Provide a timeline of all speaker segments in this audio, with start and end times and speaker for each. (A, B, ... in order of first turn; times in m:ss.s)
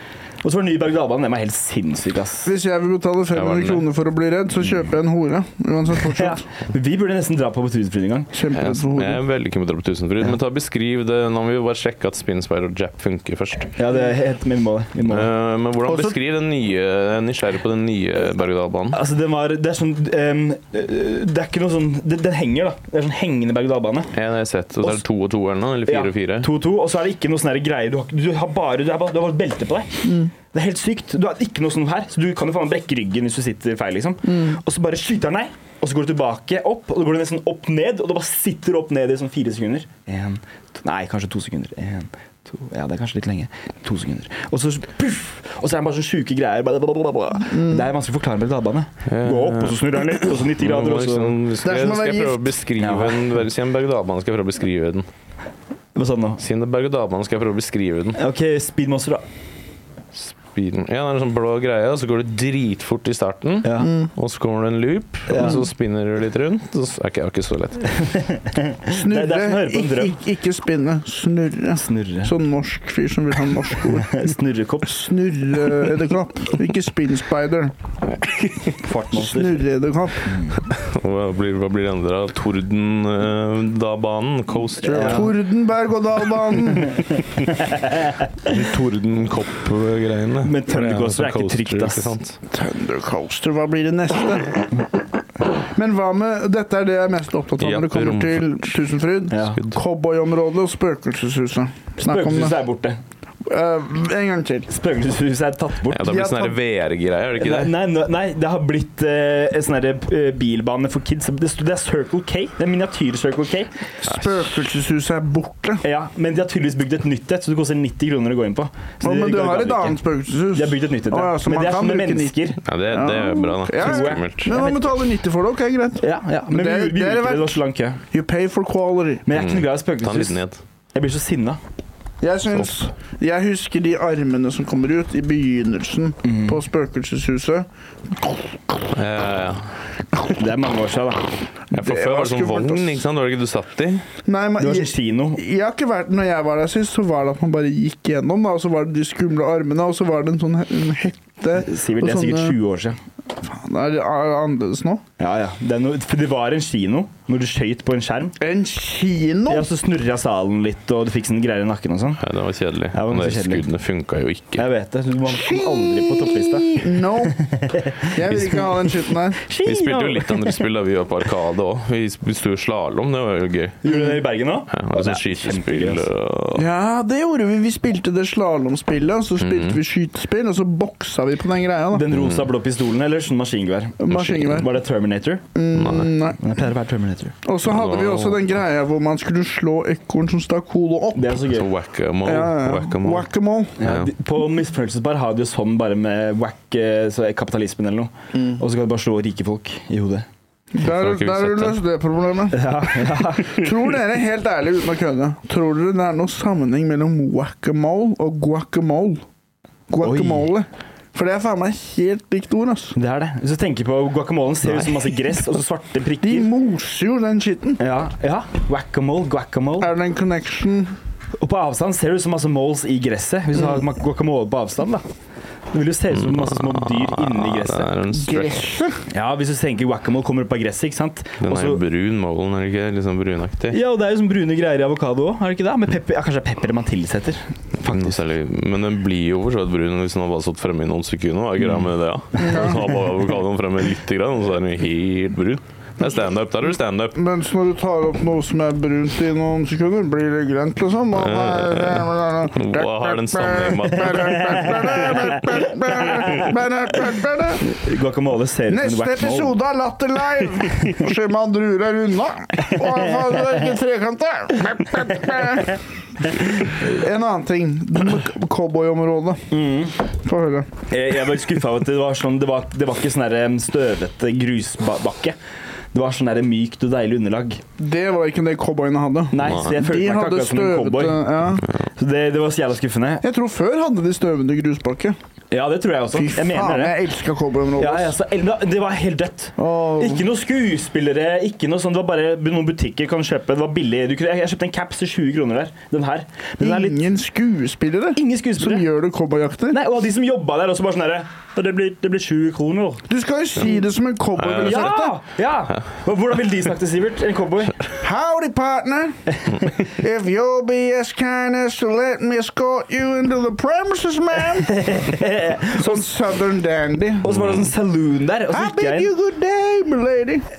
0:00.4-0:02.5 A
0:02.4-0:06.4 B
0:03.3-0:03.8 C
0:06.0-0:08.3 A
0:08.3-0:09.2 B
0:08.5-0:13.8 C
0:13.8-0:15.3 A
0:15.1-0:19.0 C
0:15.8-0:16.1 B
0:18.9-0:24.1 A
0:24.1-0:26.5 C
0:25.8-0:51.4 A
0:30.0-0:30.3 B
0:34.3-0:34.6 B
0:47.5-0:47.8 B
0:49.0-0:55.0 C
0:51.6-0:52.5 B
0:52.8-0:53.3 A
0:55.9-0:56.4 A
0:56.4-0:58.2 C
0:58.2-0:59.2 A
1:00.1-1:08.0 C
1:03.6-1:03.9 A
1:03.8-1:04.1 B
1:05.3-1:05.6 A
1:07.9-1:10.2 A
1:08.9-1:14.2 B
1:11.8-1:12.3 A
1:13.8-1:15.0 A
1:14.8-1:17.7 B
1:18.0-1:18.8 C
1:18.8-1:19.6 A
1:19.1-1:20.4 B
1:20.2-1:20.6 A
1:20.6-1:25.3 C
1:24.8-1:25.3 A
1:25.0-1:27.2 B
1:26.8-1:27.2 A
1:28.4-1:32.4 C
1:30.4-1:32.1 A
1:32.5-1:34.7 B
1:35.6-1:42.6 B
1:37.6-1:38.7 C
1:39.3-1:39.6 A
1:39.5-1:39.8 C
1:42.0-1:43.0 A
1:43.4-1:44.7 B
1:44.7-1:46.1 A
1:45.9-1:47.7 C
1:46.0-1:46.6 B
1:47.4-1:53.7 A
1:54.0-1:55.8 B
1:55.8-2:00.0 A
1:59.0-2:07.6 B
2:00.5-2:02.6 A
2:02.6-2:04.5 C
2:03.7-2:04.9 A
2:06.0-2:08.0 A
2:08.1-2:09.2 B
2:09.2-2:10.4 A
2:09.3-2:10.6 C
2:10.9-2:11.6 A
2:12.2-2:18.7 B
2:16.2-2:16.6 A
2:18.9-2:19.7 C
2:20.3-2:21.3 A
2:21.7-2:23.0 B
2:21.7-2:24.0 C
2:24.2-2:32.6 B
2:24.6-2:25.4 A
2:31.6-2:33.0 A
2:33.4-2:35.0 B
2:35.2-2:38.4 A
2:38.4-2:39.7 B
2:39.5-2:42.2 A
2:42.2-2:44.7 C
2:42.9-2:43.6 A
2:44.6-2:50.6 A
2:45.3-2:47.4 B
2:48.1-2:49.4 B
2:49.6-2:54.0 C
2:53.8-2:56.0 A
2:54.7-2:56.7 C
2:56.5-3:02.1 B
2:59.4-2:59.8 C
3:01.9-3:05.4 A
3:02.1-3:02.5 C
3:04.0-3:04.7 B
3:04.1-3:04.6 C
3:05.5-3:06.4 B
3:05.7-3:06.1 C
3:06.3-3:07.3 A
3:07.4-3:11.4 B
3:07.6-3:08.5 C
3:11.1-3:11.7 A
3:11.4-3:13.3 C
3:12.2-3:13.8 B
3:13.8-3:20.2 A
3:13.8-3:14.1 C
3:20.7-3:29.2 B
3:20.8-3:21.8 C
3:22.5-3:23.7 A
3:29.9-3:33.0 B
3:30.0-3:30.5 A
3:32.9-3:36.5 A
3:36.2-3:37.8 B
3:37.8-3:39.9 A
3:39.8-3:40.9 B
3:41.4-3:45.0 A
3:45.7-3:47.9 A
3:46.1-3:48.8 C
3:48.1-3:49.0 B
3:49.1-3:51.8 A
3:51.4-3:53.8 C
3:53.7-3:58.2 A
3:57.8-4:07.2 C
4:02.4-4:02.8 B
4:07.1-4:17.7 B
4:11.2-4:15.2 C
4:17.7-4:19.6 A
4:18.7-4:29.5 B
4:22.7-4:23.5 A
4:29.5-4:29.9 A
4:30.2-4:30.7 B
4:30.9-4:35.4 A
4:35.9-4:37.6 A
4:37.8-4:41.7 B
4:39.3-4:41.3 A
4:42.0-4:43.2 A
4:43.2-4:45.2 B
4:45.5-4:47.0 A
4:46.1-4:48.1 B
4:47.8-4:57.0 A
4:49.6-4:50.2 B
4:56.6-4:59.8 B
4:58.2-4:58.9 A
4:59.7-5:03.0 A
5:03.1-5:05.2 B
5:04.4-5:04.9 C
5:04.6-5:07.8 A
5:08.0-5:15.1 B
5:14.5-5:16.1 A
5:15.7-5:17.3 B
5:17.2-5:19.1 A
5:17.2-5:17.7 C
5:18.5-5:20.4 B